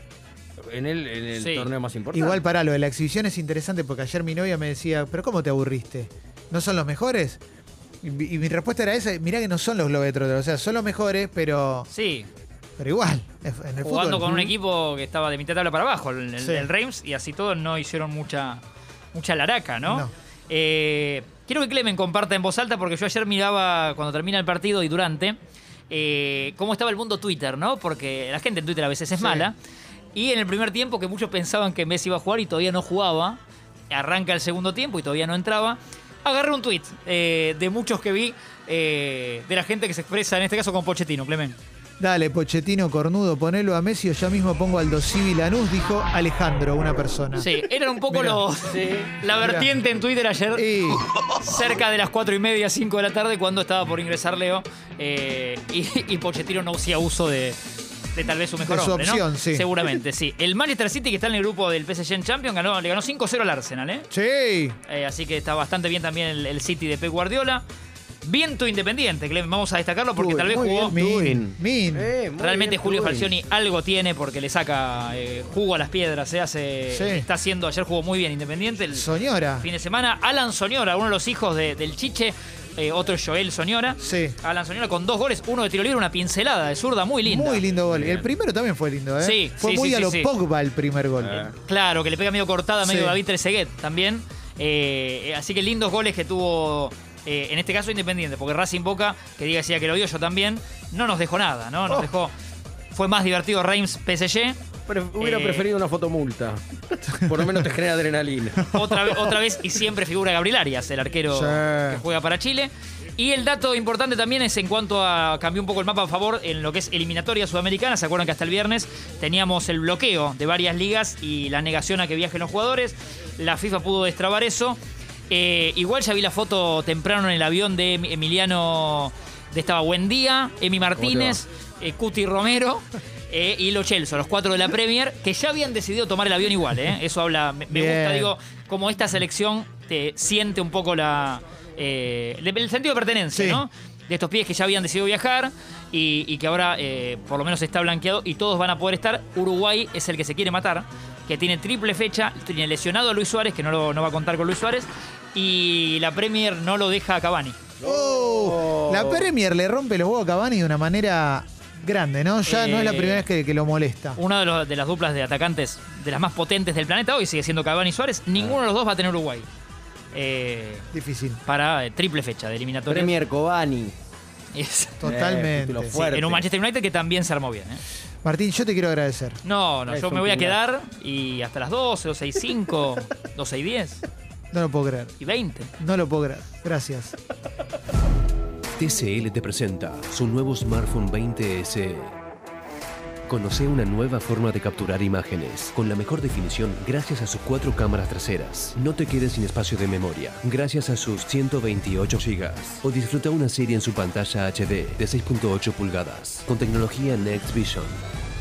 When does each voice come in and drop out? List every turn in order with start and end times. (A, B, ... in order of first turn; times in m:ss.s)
0:00.6-0:02.4 A
0:02.1-0:07.4 B
0:08.0-0:11.9 B
0:11.9-0:12.3 C
0:12.8-0:14.5 B
0:13.8-0:25.4 C
0:16.4-0:16.7 B
0:19.8-0:20.1 B
0:25.9-0:29.6 C
0:29.1-0:29.5 B
0:30.1-0:41.6 C
0:42.0-0:47.5 B
0:47.4-0:57.6 C
0:48.0-0:48.4 B
0:48.7-0:49.2 A
0:49.3-0:49.8 B
0:50.5-0:51.0 B
0:58.1-1:04.1 C
0:58.6-0:59.7 B
1:04.1-1:04.8 B
1:04.9-1:07.6 C
1:08.2-1:10.8 C
1:10.2-1:13.3 A
1:10.8-1:12.1 B
1:12.4-1:19.0 C
1:16.9-1:17.3 B
1:18.9-1:19.7 B
1:19.6-1:27.6 C
1:24.0-1:24.4 B
1:27.2-1:31.5 B
1:27.9-1:28.3 A
1:29.2-1:30.3 C
1:31.2-1:31.6 A
1:31.6-1:42.3 C
1:32.8-1:33.2 B
1:42.9-1:44.6 C
1:44.9-1:48.7 A
1:45.3-1:45.6 C
1:48.8-2:37.6 C
1:51.3-1:52.0 B
2:10.9-2:11.4 A
2:17.7-2:18.3 B
2:23.3-2:23.7 B
2:37.8-2:39.3 A
2:37.8-2:44.2 B
2:42.4-2:43.2 C
2:44.2-2:49.5 C
2:50.1-2:50.9 C
2:50.9-2:51.4 B
2:51.4-2:53.0 C
2:52.9-2:53.9 A
2:54.5-2:55.0 C
2:55.0-2:56.1 B
2:55.0-2:56.5 A
2:56.1-2:57.8 C
2:58.2-2:59.4 B
2:59.4-3:04.0 C
2:59.9-3:00.6 A
3:04.5-3:05.1 B
3:05.2-3:05.7 C
3:05.8-3:07.2 B
3:08.8-3:12.2 D
3:13.3-3:28.0 D